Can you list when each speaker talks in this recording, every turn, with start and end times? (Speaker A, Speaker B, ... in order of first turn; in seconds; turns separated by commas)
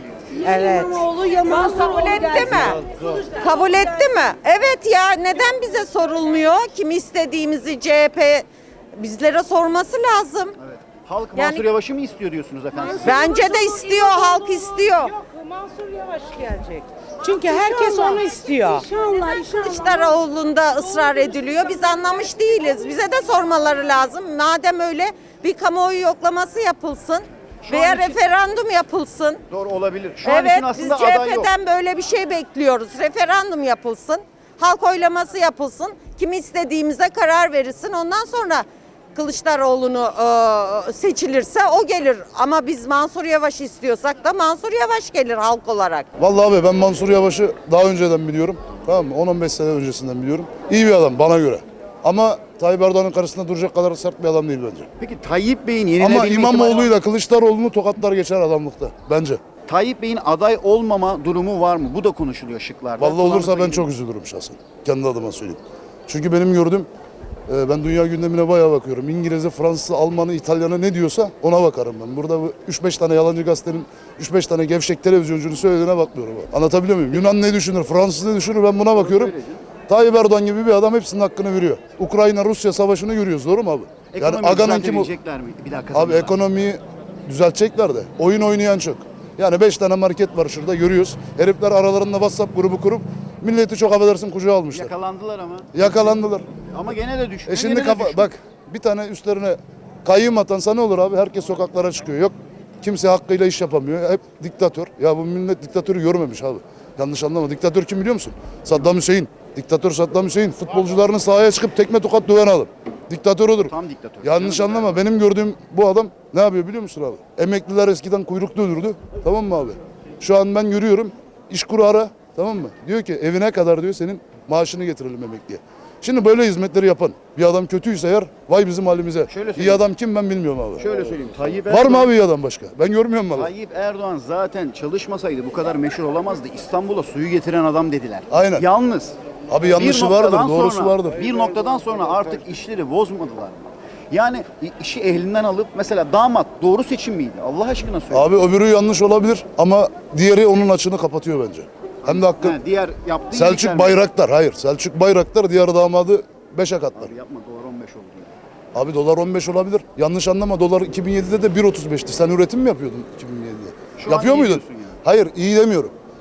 Speaker A: 0.4-2.8, Speaker B: 1.3-2.8, Speaker B: 3.3-10.5, Speaker C: 10.6-13.6, Speaker B: 11.3-11.7, Speaker B: 13.0-15.2, Speaker A: 13.8-14.2, Speaker A: 15.2-20.0, Speaker B: 17.6-18.1, Speaker B: 18.9-29.4, Speaker C: 27.6-28.2, Speaker C: 29.5-31.5, Speaker B: 30.2-46.0, Speaker D: 46.2-54.9, Speaker C: 55.0-57.0, Speaker D: 56.0-59.4, Speaker C: 59.7-63.9, Speaker D: 63.0-66.9, Speaker D: 67.5-79.3, Speaker C: 78.9-79.6, Speaker D: 79.9-85.1, Speaker C: 84.1-86.4, Speaker D: 85.9-94.9, Speaker C: 94.7-95.9, Speaker D: 95.7-96.5, Speaker C: 96.7-98.3, Speaker D: 97.5-130.9, Speaker C: 113.6-115.0, Speaker C: 129.3-129.9, Speaker C: 130.8-132.1, Speaker D: 131.7-133.5, Speaker C: 133.3-139.2, Speaker D: 138.3-138.7, Speaker D: 139.5-141.2, Speaker C: 139.7-148.3, Speaker D: 148.1-152.6, Speaker C: 152.0-154.1, Speaker D: 153.3-157.1, Speaker C: 157.0-158.3, Speaker D: 158.7-165.9, Speaker C: 164.0-165.0